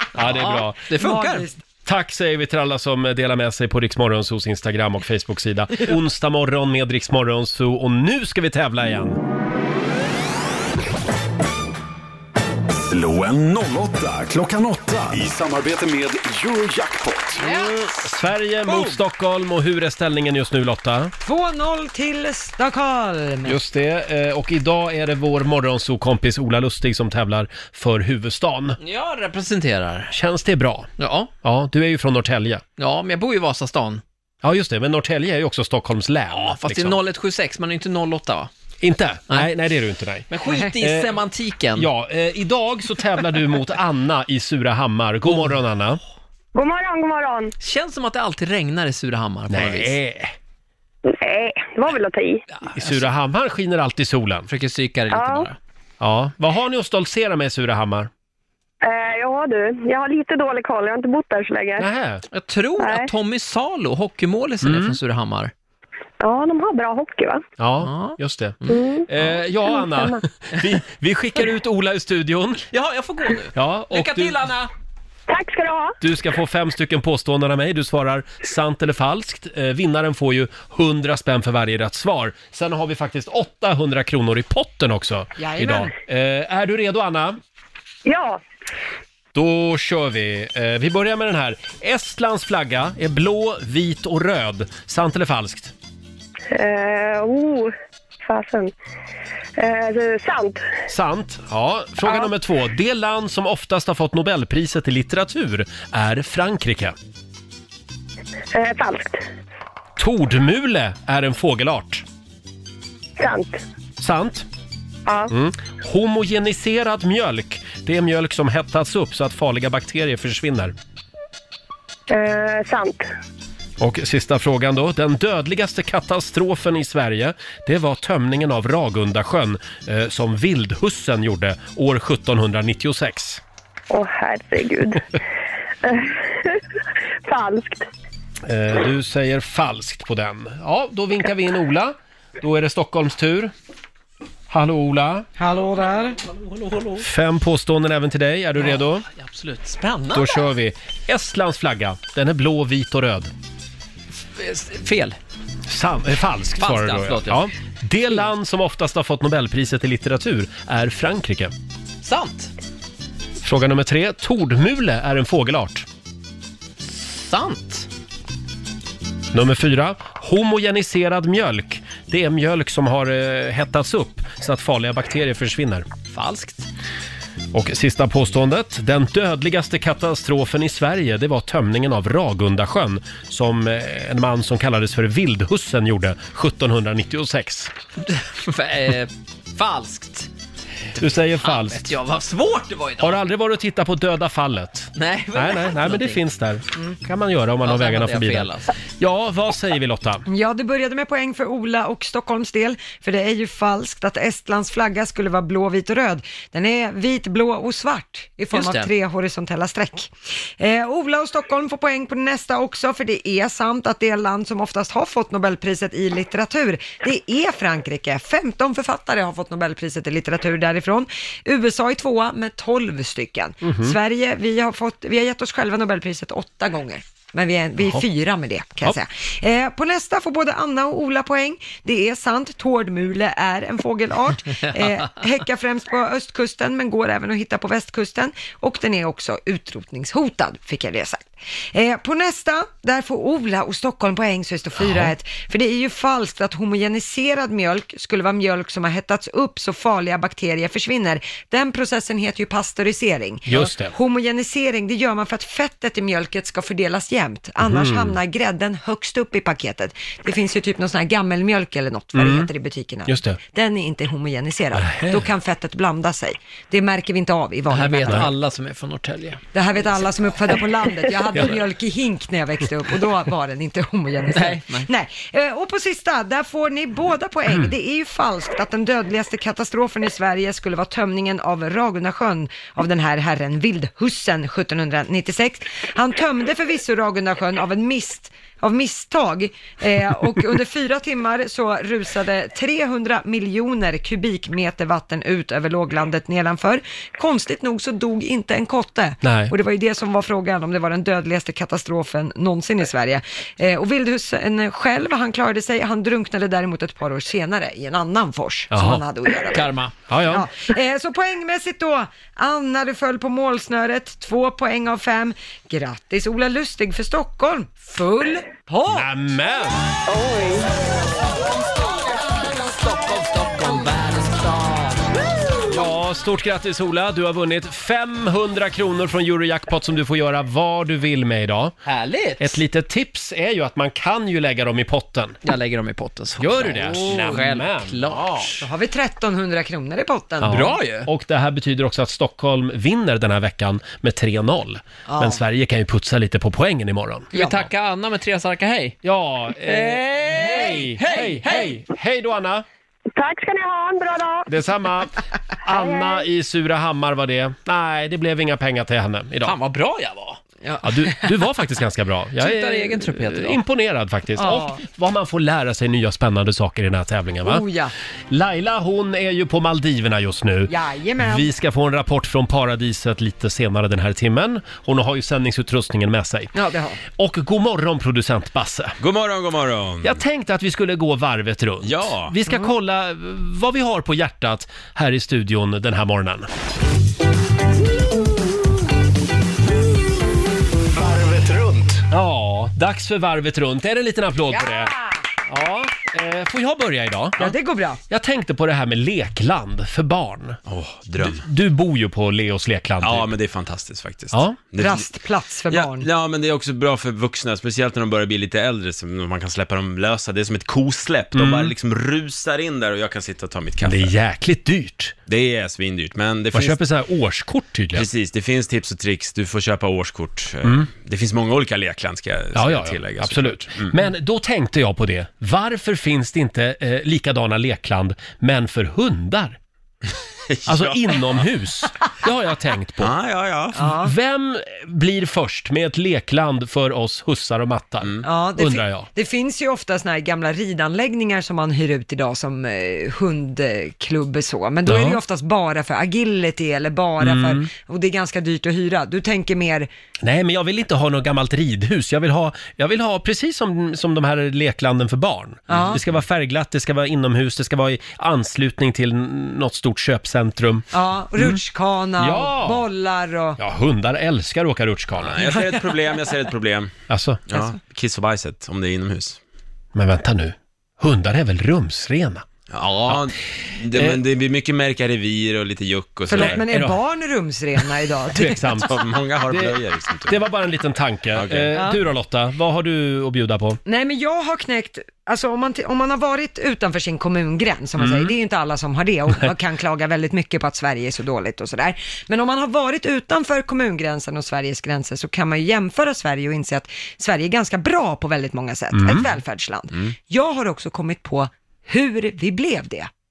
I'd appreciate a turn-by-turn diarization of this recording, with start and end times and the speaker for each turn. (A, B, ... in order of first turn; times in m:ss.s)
0:00.1-0:00.8 A
0:00.2-0:01.5 B
0:01.0-0:01.6 C
0:01.8-0:09.2 A
0:12.8-0:17.4 D
0:17.4-0:17.7 C
0:17.5-0:21.1 A
0:18.7-0:19.0 B
0:21.2-0:23.6 C
0:23.5-0:28.8 A
0:28.8-0:30.1 B
0:30.1-0:30.9 A
0:31.0-0:31.3 B
0:31.4-0:32.6 A
0:32.8-0:34.0 B
0:34.4-0:37.0 A
0:36.3-0:38.5 B
0:38.8-0:41.1 A
0:40.3-0:41.9 B
0:40.5-0:40.7 C
0:41.8-0:46.0 A
0:46.6-0:47.5 E
0:47.6-0:50.0 B
0:49.5-0:50.3 A
0:51.1-0:52.4 E
0:52.6-0:53.1 B
0:52.7-0:54.5 A
0:54.5-0:55.6 B
0:55.1-0:55.5 E
0:56.0-0:58.1 A
0:58.8-1:01.9 E
1:01.8-1:02.2 A
1:02.3-1:05.5 B
1:02.8-1:03.1 E
1:04.6-1:05.0 A
1:06.2-1:07.4 E
1:07.6-1:12.7 A
1:07.8-1:08.8 B
1:08.7-1:09.1 E
1:09.7-1:10.2 E
1:12.7-1:14.7 B
1:13.6-1:14.4 A
1:15.3-1:16.0 E
1:16.0-1:27.4 A
1:25.4-1:25.9 C
1:28.0-1:28.4 E
1:29.4-1:35.7 A
1:36.5-1:38.7 E
1:39.6-1:40.7 E
1:40.9-1:47.0 A
1:48.5-1:49.2 E
1:50.0-1:52.0 A
1:53.2-1:53.6 E
1:54.0-1:54.5 A
1:55.1-1:55.3 E
1:55.3-2:00.8 A
2:02.1-2:03.1 E
2:03.8-2:13.4 A
2:13.9-2:15.1 E
2:15.8-2:16.6 E
2:17.2-2:17.9 E
2:18.5-2:23.5 A
2:24.5-2:25.3 A
2:25.4-2:26.2 C
2:26.2-2:27.0 B
2:27.0-2:29.1 A
2:28.6-2:30.4 B
2:30.1-2:33.3 A
2:34.4-2:35.2 B
2:35.7-2:41.5 A
2:36.6-2:37.5 B
2:42.0-2:42.5 B
2:43.4-2:45.9 A
2:46.8-2:47.9 B
2:49.3-2:55.9 A
2:56.1-2:56.7 B
2:57.5-3:07.7 A
3:08.0-3:10.3 B
3:11.0-3:11.9 A
3:11.4-3:13.2 B
3:13.0-3:20.2 A
3:15.0-3:16.2 B
3:17.6-3:18.8 B
3:20.3-4:28.3 C
3:28.5-3:28.9 B
3:43.6-3:44.0 A
4:04.8-4:05.1 A
4:13.5-4:13.9 A
4:17.6-4:18.2 A
4:22.2-4:22.5 A
4:23.1-4:23.4 A
4:24.8-4:25.3 A
4:27.7-4:29.4 B
4:29.5-5:09.7 C
4:34.3-4:34.9 B
4:59.2-4:59.5 A
5:08.7-5:09.0 A
5:09.5-5:09.9 B
5:10.1-5:10.5 A
5:10.3-5:19.1 C
5:18.9-5:19.8 A
5:20.1-5:20.7 E
5:22.4-5:25.2 B
5:25.7-5:31.8 A
5:31.8-5:32.6 B
5:32.4-5:35.4 A
5:35.4-5:38.7 B
5:36.4-5:38.2 A
5:38.6-5:40.7 C
5:40.4-5:47.3 A
5:40.5-5:41.1 B
5:45.1-5:45.4 C
5:47.3-5:49.0 B
5:47.4-5:47.6 C
5:49.0-5:52.6 A
5:49.6-5:51.7 B
5:53.2-5:54.5 E
5:54.5-5:59.6 A
5:55.7-5:56.2 E
5:59.4-6:00.4 B
6:00.6-6:01.3 C
6:00.8-6:07.6 A
6:02.4-6:03.6 B
6:04.4-6:04.8 C
6:07.4-6:07.9 C
6:08.3-6:16.5 A
6:10.7-6:11.5 C
6:16.5-6:17.0 C
6:17.2-6:19.0 A
6:19.0-6:20.2 F
6:20.0-6:26.5 A
6:21.8-6:22.4 F
6:30.9-6:32.0 D
6:32.1-6:34.9 A
6:34.6-6:35.0 C
6:35.5-6:37.6 A
6:37.4-6:38.0 C
6:38.1-6:40.6 A
6:40.7-6:41.4 F
6:41.2-6:43.3 A
6:43.0-6:45.1 F
6:44.3-6:44.6 A
6:44.8-6:46.1 C
6:45.7-6:54.1 F
6:51.4-6:51.7 A
6:53.8-6:55.1 A
6:55.3-6:56.8 F
6:56.5-6:58.1 A
6:57.9-7:04.0 F
7:02.6-7:09.6 A
7:10.5-7:11.4 F
7:10.7-7:13.1 A
7:13.0-7:14.0 F
7:13.8-7:14.1 C
7:13.9-7:19.1 A
7:18.2-7:29.9 C
7:24.9-7:25.2 A
7:27.2-7:27.7 A
7:30.2-7:40.9 A
7:35.7-7:36.0 C
7:40.9-7:43.6 C
7:42.2-7:42.8 A
7:43.6-7:45.5 A
7:45.2-7:46.9 F
7:45.5-7:45.9 C
7:47.1-7:47.4 A
7:47.5-7:49.4 F
7:50.0-7:52.4 A
7:52.7-7:56.6 F
7:54.0-7:54.2 A
7:56.3-7:58.8 C
7:56.4-7:57.0 A
7:58.3-8:03.8 A
7:58.8-8:00.4 F
8:01.3-8:01.8 F
8:01.8-8:02.0 C
8:03.9-8:23.1 C
8:08.0-8:08.3 A
8:18.9-8:19.3 A